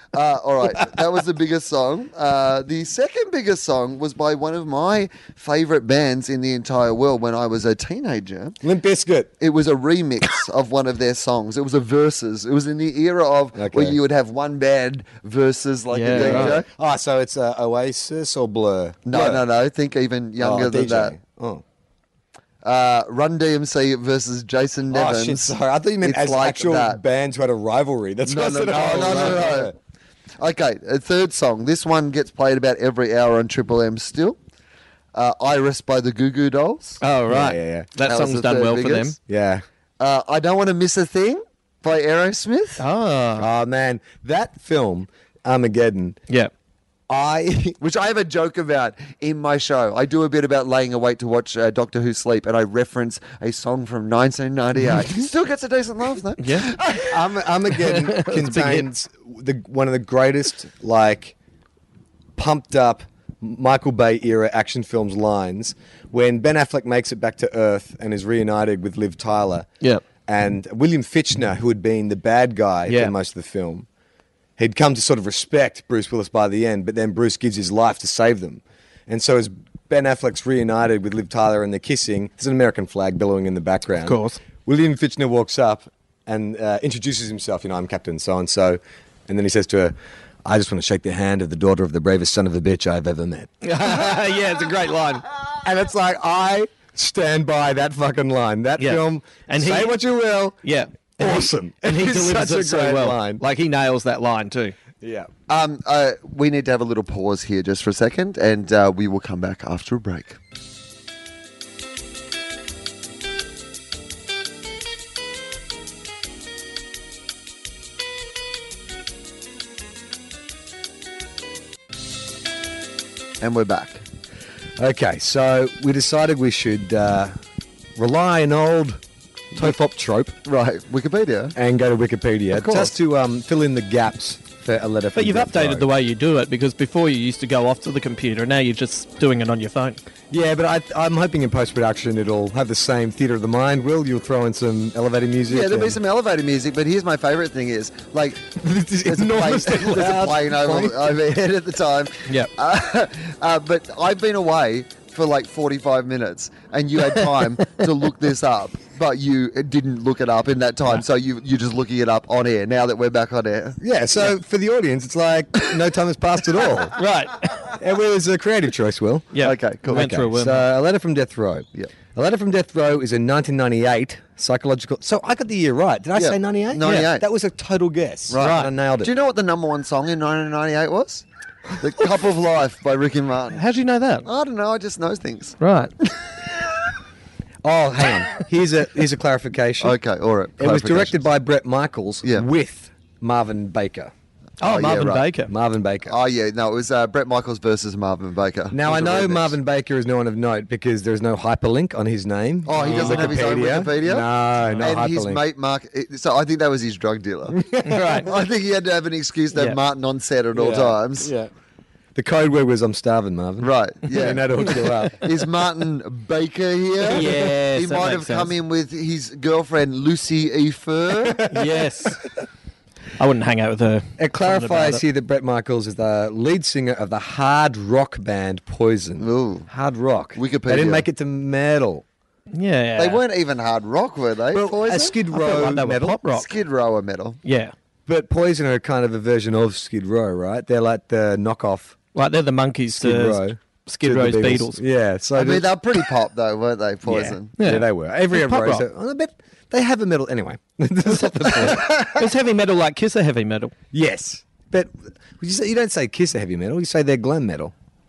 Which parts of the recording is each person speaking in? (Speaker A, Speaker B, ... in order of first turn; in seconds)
Speaker A: 0.1-8.6, 9.4-16.7, 19.1-21.2, 22.6-27.0, 28.2-29.7, 30.4-34.4, 35.1-37.0, 38.0-39.1, 40.0-42.8, 47.8-57.2, 105.5-110.4, 123.4-124.0, 130.4-131.5, 132.5-132.9, 145.5-163.8, 169.4-170.1, 176.2-177.2, 178.3-181.2, 181.8-183.6, 184.2-185.6, 189.8-191.2, 194.6-195.3, 196.1-199.5, 202.7-204.3, 204.8-211.3, 213.6-221.5, 229.2-229.7, 230.3-231.0, 233.0-235.2, 236.3-237.4, 245.3-247.5
Speaker B: 8.6-9.3, 13.5-14.0, 16.1-19.4, 20.4-21.6, 24.9-29.7, 37.3-37.9, 39.3-39.6, 43.4-46.2, 47.1-47.8, 57.1-61.3, 62.4-69.7, 70.2-73.8, 74.6-94.1, 95.6-100.6, 101.2-103.4, 105.0-105.3, 124.8-127.4, 128.0-129.0, 129.5-130.3, 131.6-135.9, 140.3-146.0, 148.6-151.2, 163.8-166.9, 167.7-169.3, 169.9-179.1, 187.6-190.0, 190.6-194.1, 195.5-196.2, 198.7-205.4, 207.5-208.3, 210.5-211.5, 212.1-215.3, 217.1-217.5, 221.2-221.9, 224.2-232.0, 234.5-236.2, 238.1-242.0, 242.9-245.7, 247.1-252.3, 253.9-257.7
Speaker C: 15.9-16.6, 37.0-39.1, 42.8-43.5, 56.4-56.7, 57.8-58.9, 72.9-73.1, 84.0-84.4, 93.6-95.2, 98.8-100.0, 100.6-104.7, 135.1-140.0, 166.9-167.7, 169.3-170.6, 178.4-178.7, 183.5-184.2, 185.6-185.9, 194.6-195.5, 202.8-203.4, 204.6-204.9, 207.8-208.3, 217.1-218.5, 221.5-222.2, 223.2-225.0, 232.5-233.2, 235.3-236.5, 237.4-237.7, 242.1-244.8, 247.6-248.8, 251.3-253.7